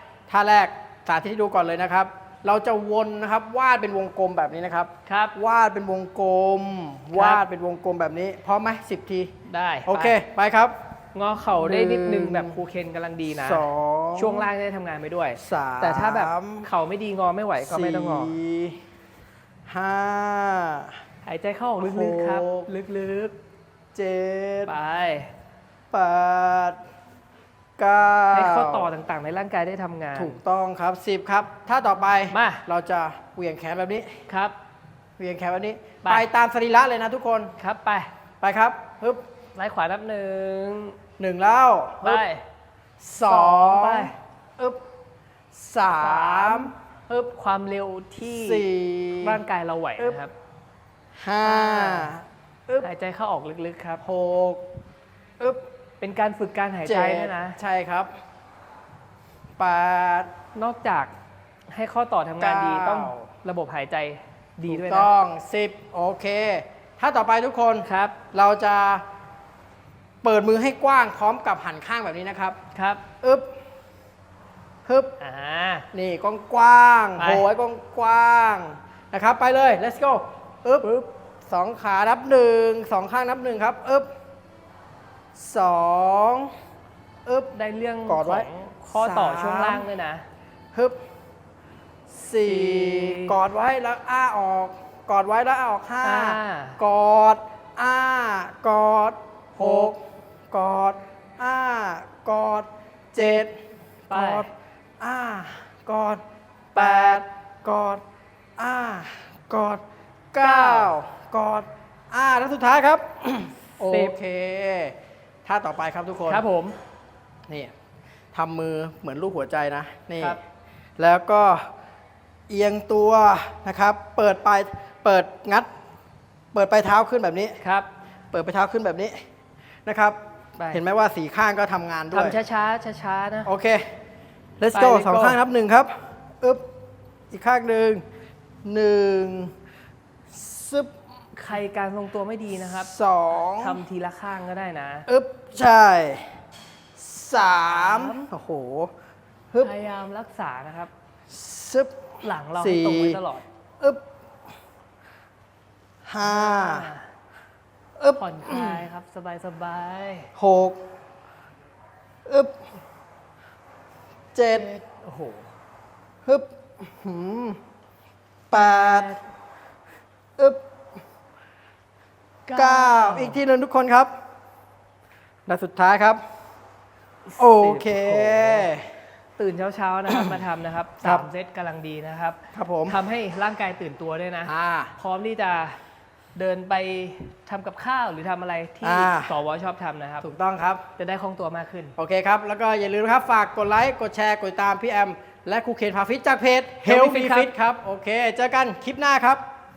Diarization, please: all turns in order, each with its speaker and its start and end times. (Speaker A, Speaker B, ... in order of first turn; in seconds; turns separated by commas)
Speaker A: 0.3-9.3, Speaker B: 5.1-5.3, Speaker B: 7.1-7.4, Speaker B: 9.5-10.2, Speaker A: 9.9-10.8, Speaker B: 11.2-18.4, Speaker A: 11.5-12.6, Speaker A: 13.3-14.5, Speaker A: 15.4-16.7, Speaker A: 17.6-18.8, Speaker A: 19.7-20.9, Speaker B: 21.2-23.4, Speaker A: 21.8-22.7, Speaker A: 23.9-24.8, Speaker B: 24.7-25.3, Speaker A: 25.9-26.8, Speaker A: 27.8-28.9, Speaker B: 28.3-30.4, Speaker A: 30.2-34.2, Speaker B: 32.3-32.6, Speaker B: 34.3-34.5, Speaker A: 35.2-37.5, Speaker B: 37.6-38.1, Speaker A: 38.4-39.2, Speaker B: 39.5-41.0, Speaker A: 41.2-42.2, Speaker B: 42.0-42.4, Speaker A: 43.0-44.8, Speaker B: 43.2-44.1, Speaker A: 45.5-46.7, Speaker B: 45.9-48.6, Speaker A: 48.3-49.4, Speaker B: 49.2-50.3, Speaker A: 51.2-52.9, Speaker B: 51.4-52.1, Speaker B: 52.8-54.0, Speaker A: 54.0-54.6, Speaker B: 56.0-57.6, Speaker A: 56.9-58.1, Speaker A: 59.6-60.3, Speaker B: 60.5-61.1, Speaker B: 61.7-65.1, Speaker A: 62.4-63.2, Speaker A: 64.7-69.0, Speaker B: 67.8-68.2, Speaker A: 70.2-72.6, Speaker B: 72.7-73.0, Speaker A: 73.2-73.5, Speaker A: 74.8-75.1, Speaker B: 75.2-75.9, Speaker A: 75.9-80.9, Speaker B: 77.2-77.5, Speaker B: 80.8-81.1, Speaker A: 81.5-84.1, Speaker A: 85.3-86.5, Speaker A: 87.2-87.5, Speaker B: 87.5-90.2, Speaker A: 88.1-89.9, Speaker A: 90.7-91.0, Speaker A: 92.1-100.0, Speaker B: 92.4-93.4, Speaker B: 96.0-96.8, Speaker B: 99.6-99.9, Speaker A: 100.5-103.6, Speaker A: 104.1-104.5, Speaker B: 104.1-104.5, Speaker A: 105.0-106.2, Speaker A: 106.7-108.0, Speaker B: 106.8-107.2, Speaker A: 108.6-109.8, Speaker A: 110.3-116.4, Speaker B: 110.4-111.0, Speaker B: 113.8-114.2, Speaker B: 116.3-116.8, Speaker A: 117.5-117.7, Speaker A: 118.3-120.4, Speaker A: 121.0-121.7, Speaker A: 122.5-125.7, Speaker A: 126.5-127.6, Speaker B: 127.6-127.9, Speaker A: 128.3-129.2, Speaker A: 129.8-130.2, Speaker B: 130.6-130.8, Speaker A: 130.7-132.4, Speaker B: 132.1-133.5, Speaker A: 133.4-133.9, Speaker A: 134.6-136.6, Speaker B: 134.7-135.4, Speaker A: 137.3-138.0, Speaker A: 138.6-139.5, Speaker A: 140.3-140.9, Speaker B: 141.3-142.9, Speaker A: 142.8-143.8, Speaker B: 143.4-145.1, Speaker A: 145.1-146.3, Speaker A: 147.0-148.9, Speaker B: 147.4-148.3, Speaker B: 149.6-150.9, Speaker A: 151.3-153.2, Speaker B: 152.2-153.4, Speaker A: 156.1-156.9, Speaker B: 156.2-157.1, Speaker A: 158.0-158.8, Speaker B: 158.2-160.3, Speaker A: 160.4-160.8, Speaker A: 162.2-162.5, Speaker A: 164.3-164.8, Speaker B: 164.5-165.5, Speaker A: 166.2-167.6, Speaker A: 168.5-169.1, Speaker B: 168.5-169.2, Speaker B: 172.5-173.4, Speaker A: 172.5-174.1, Speaker A: 175.5-176.2, Speaker B: 177.3-178.7, Speaker A: 177.4-178.9, Speaker B: 179.4-185.8, Speaker A: 180.1-180.4, Speaker A: 182.5-183.0, Speaker A: 184.4-184.9, Speaker B: 186.3-190.3, Speaker A: 188.8-189.3, Speaker A: 190.2-190.8, Speaker B: 191.0-191.9, Speaker A: 192.0-199.4, Speaker B: 196.8-197.5